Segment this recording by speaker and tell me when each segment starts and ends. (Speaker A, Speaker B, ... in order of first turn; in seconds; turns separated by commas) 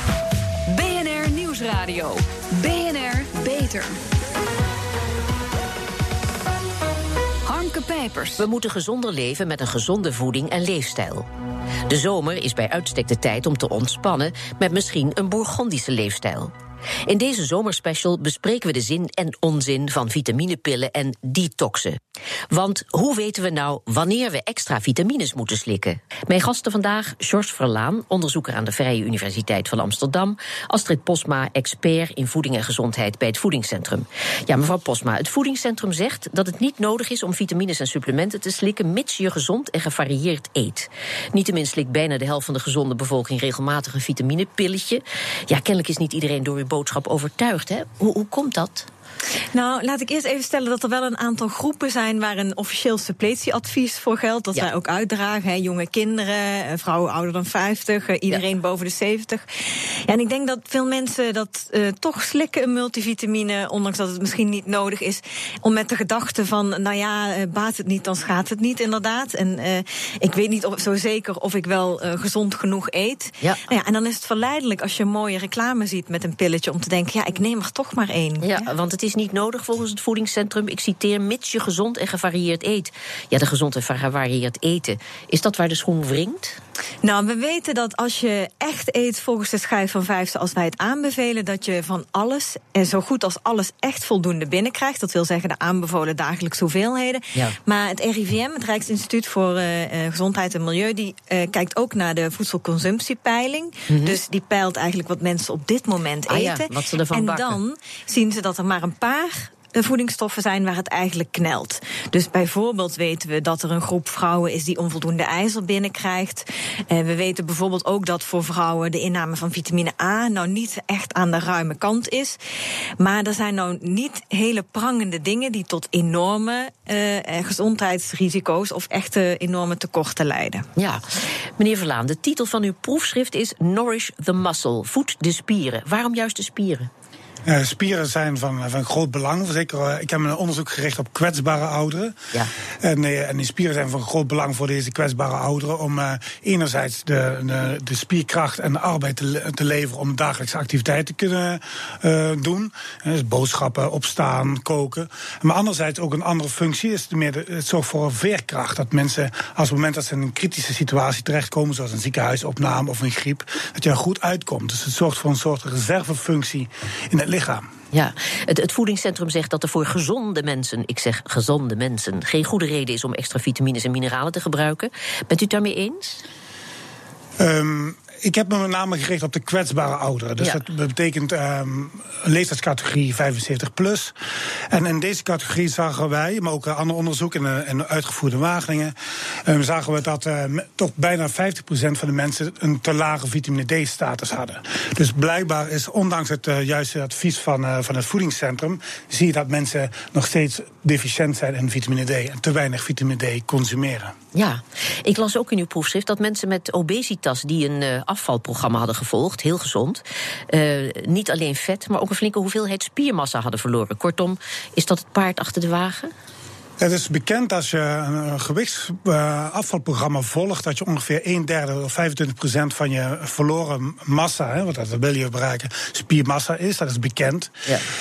Speaker A: 0.7-3.9, Speaker A: 7.5-8.4, Speaker B: 8.4-11.3, Speaker B: 11.9-16.5, Speaker B: 17.1-22.0, Speaker B: 22.5-48.9, Speaker C: 49.5-59.5, Speaker C: 60.0-78.6, Speaker B: 78.4-86.6, Speaker C: 87.0-122.4, Speaker B: 103.9-104.2, Speaker B: 106.3-107.6, Speaker C: 123.0-130.7, Speaker B: 130.8-131.0, Speaker B: 131.6-136.9, Speaker D: 137.4-142.1, Speaker D: 142.8-167.6, Speaker B: 167.9-176.2, Speaker D: 177.4-184.1, Speaker D: 184.7-188.9, Speaker D: 189.4-204.1, Speaker B: 204.3-216.1, Speaker D: 216.8-227.5